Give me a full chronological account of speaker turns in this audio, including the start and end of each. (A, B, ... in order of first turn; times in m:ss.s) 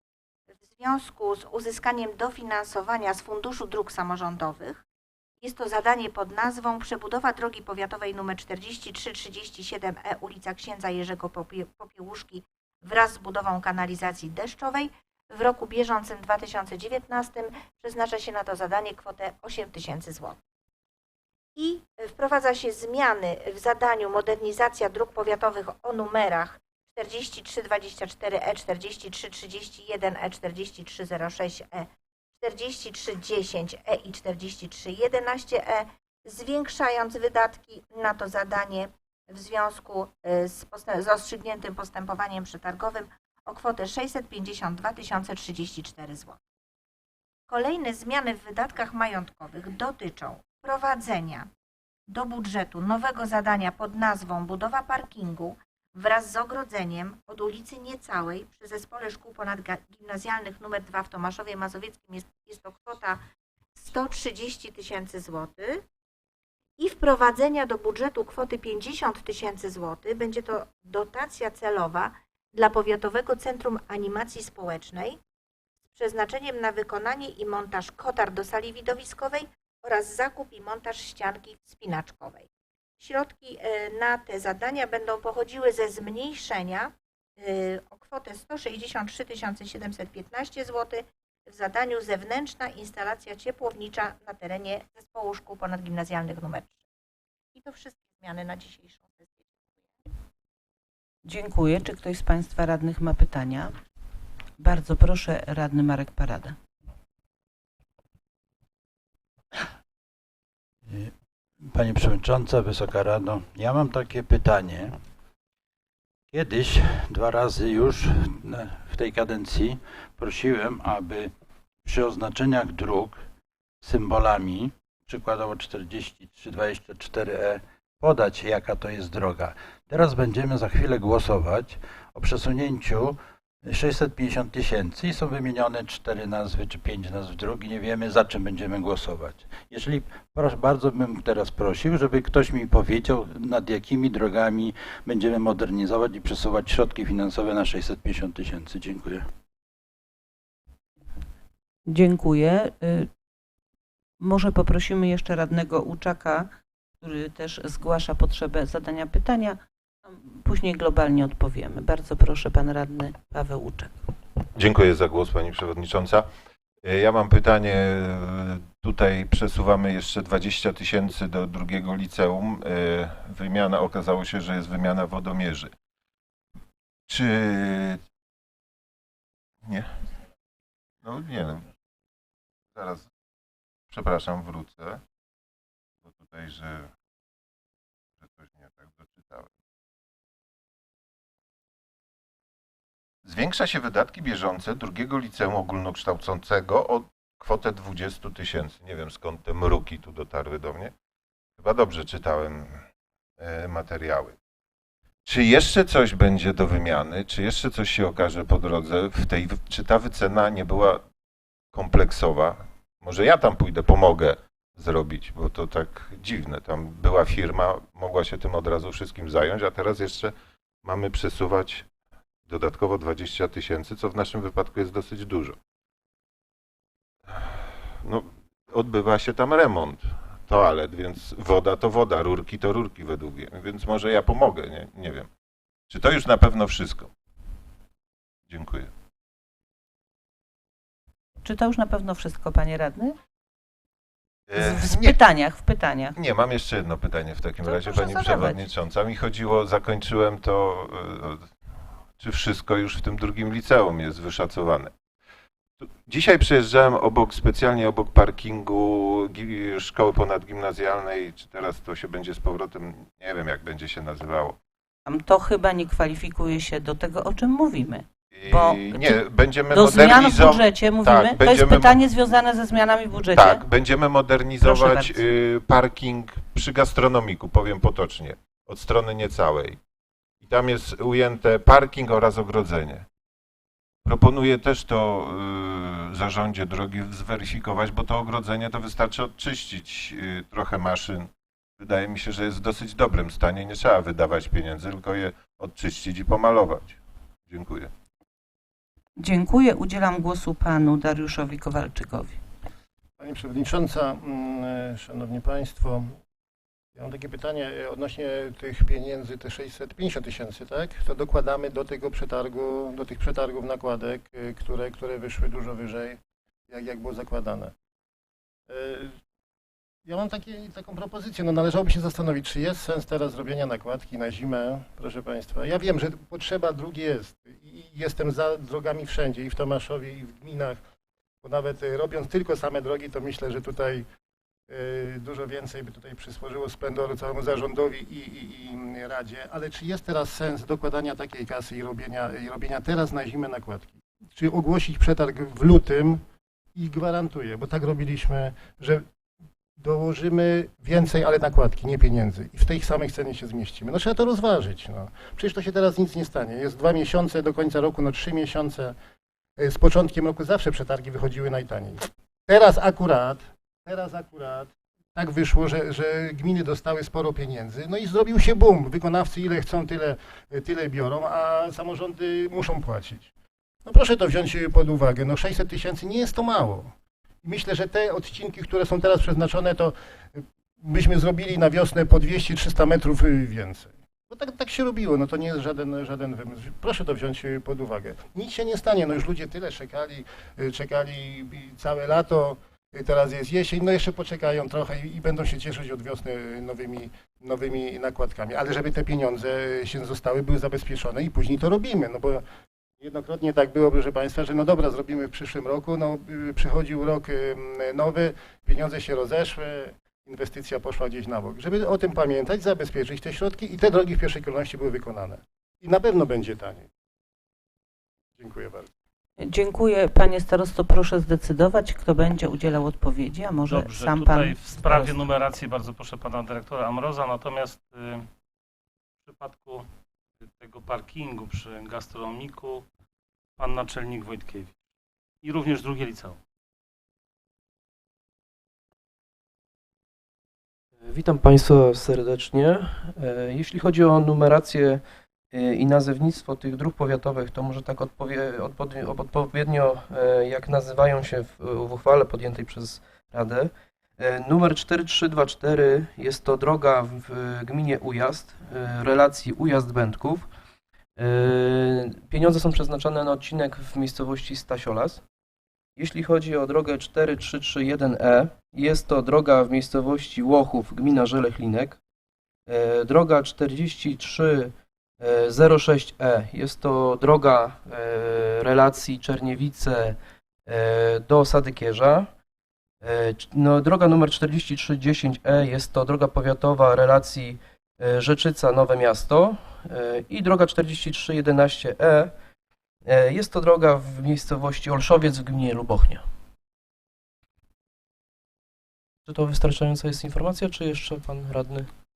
0:00.6-0:04.8 A
0:05.4-0:20.4 A
0:21.6-0:46.4 A
0:47.5-0:51.5 A
0:52.1-1:03.2 A
1:03.8-1:05.8 A
1:06.8-1:15.2 A
1:15.9-1:22.5 A
1:23.0-1:36.8 A
1:37.5-1:39.6 A
1:41.2-1:43.7 B
1:44.6-1:46.6 B
1:50.9-1:55.0 C
1:56.3-2:01.3 C
2:01.8-2:03.2 C
2:03.8-2:29.3 C
2:31.9-2:33.1 B
2:34.2-2:36.5 B
2:37.0-2:44.0 B
2:44.6-2:46.3 D
2:46.8-2:55.7 D
2:57.1-2:58.0 D
2:59.6-3:00.1 D
3:01.0-3:01.7 D
3:02.8-3:03.1 D
3:03.9-3:05.0 D
3:06.1-3:06.9 D
3:08.2-3:09.5 D
3:13.2-3:20.9 D
3:21.6-3:22.8 D
3:23.4-3:24.4 D
3:25.2-3:31.0 D
3:31.7-3:40.3 D
3:40.8-3:41.9 D
3:42.5-3:45.6 D
3:47.3-3:55.3 D
3:55.9-3:57.1 D
3:58.5-3:58.9 D
4:01.4-4:03.2 B
4:04.5-4:05.2 D
4:04.5-4:06.2 B
4:06.2-4:11.5 D
4:07.6-4:08.6 B
4:12.2-4:14.9 D
4:16.0-4:24.6 D
4:25.1-4:29.2 B
4:28.3-4:32.0 D
4:29.7-4:33.6 B
4:33.4-4:39.8 D
4:34.6-4:35.2 B
4:40.4-4:43.1 D
4:44.0-4:57.0 D
4:57.5-4:57.9 D
4:59.2-5:02.4 B
5:03.2-5:06.2 E
5:07.0-5:17.7 E
5:18.7-5:19.2 E
5:20.1-5:30.8 E
5:31.4-5:34.0 E
5:34.7-5:46.2 E
5:46.8-5:49.0 E
5:49.8-5:59.0 E
5:59.6-6:13.3 E
6:13.8-6:42.4 E
6:43.0-6:56.9 E
6:58.4-6:58.9 E
6:59.4-7:05.1 B
7:03.7-7:08.3 F
7:09.2-7:09.9 F
7:10.5-7:12.9 F
7:13.6-7:14.8 F
7:15.4-7:16.4 F
7:21.0-7:40.6 G
7:41.2-7:45.3 G
7:46.0-7:52.0 G
7:52.7-8:02.4 G
8:03.0-8:12.4 G
8:13.0-8:16.3 G
8:19.2-8:21.9 G